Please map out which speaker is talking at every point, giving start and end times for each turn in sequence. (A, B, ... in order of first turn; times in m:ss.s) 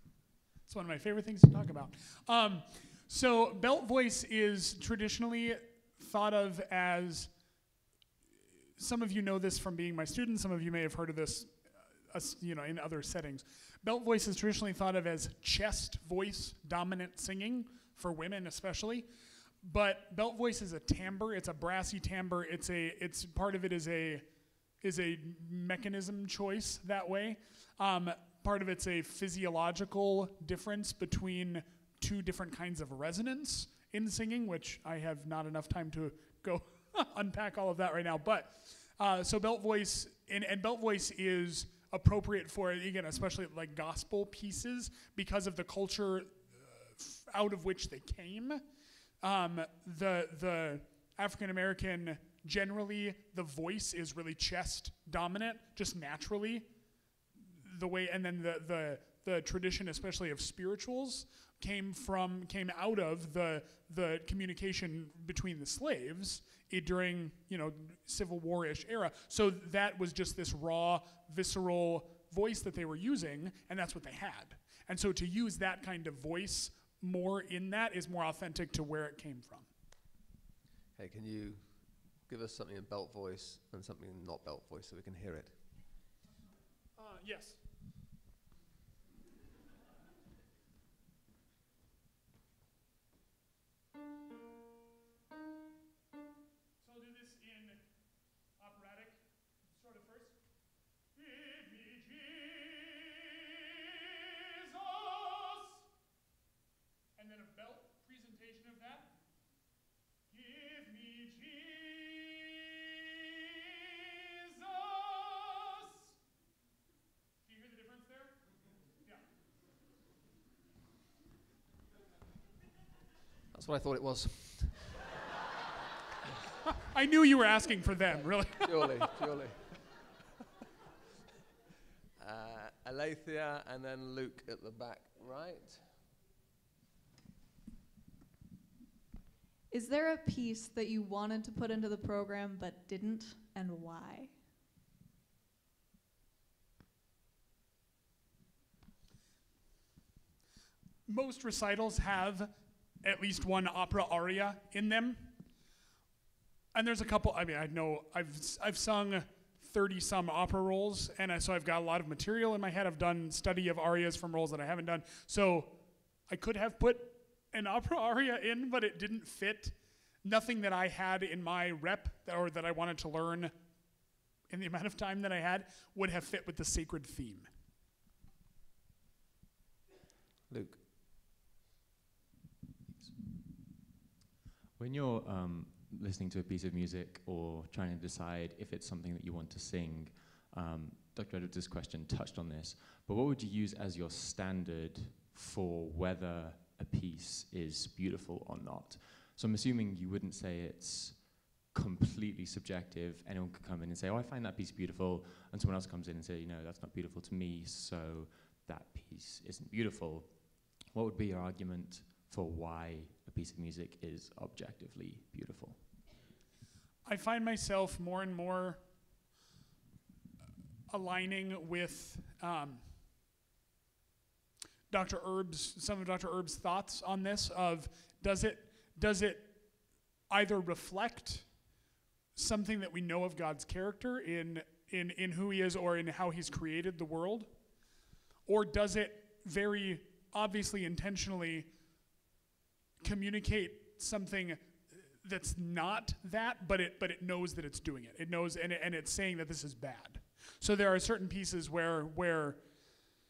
0:00.7-0:07.3 A
0:08.8-0:19.1 A
0:19.6-0:24.3 A
0:24.8-0:48.6 A
0:49.2-0:56.7 A
0:57.4-1:19.7 A
1:20.9-1:25.6 B
1:27.0-1:27.6 A
1:36.8-1:37.8 A
1:38.6-1:40.4 A
1:41.1-1:43.0 A
1:44.6-1:45.8 A
1:47.2-1:49.1 A
1:50.3-1:52.5 A
1:54.4-1:56.1 A
1:57.4-1:58.4 A
2:03.5-2:05.2 B
2:06.8-2:09.1 A
2:08.1-2:09.6 B
2:12.2-2:16.0 B
2:19.7-2:24.4 C
2:31.0-2:35.3 A
2:36.7-2:53.5 A
2:54.5-2:57.5 A
3:00.5-3:00.8 B
3:04.7-3:36.0 D
3:37.0-3:38.8 A
3:40.9-3:42.8 A
3:44.9-3:51.5 A
3:52.3-3:57.6 A
3:58.4-4:01.7 A
4:03.0-4:12.6 A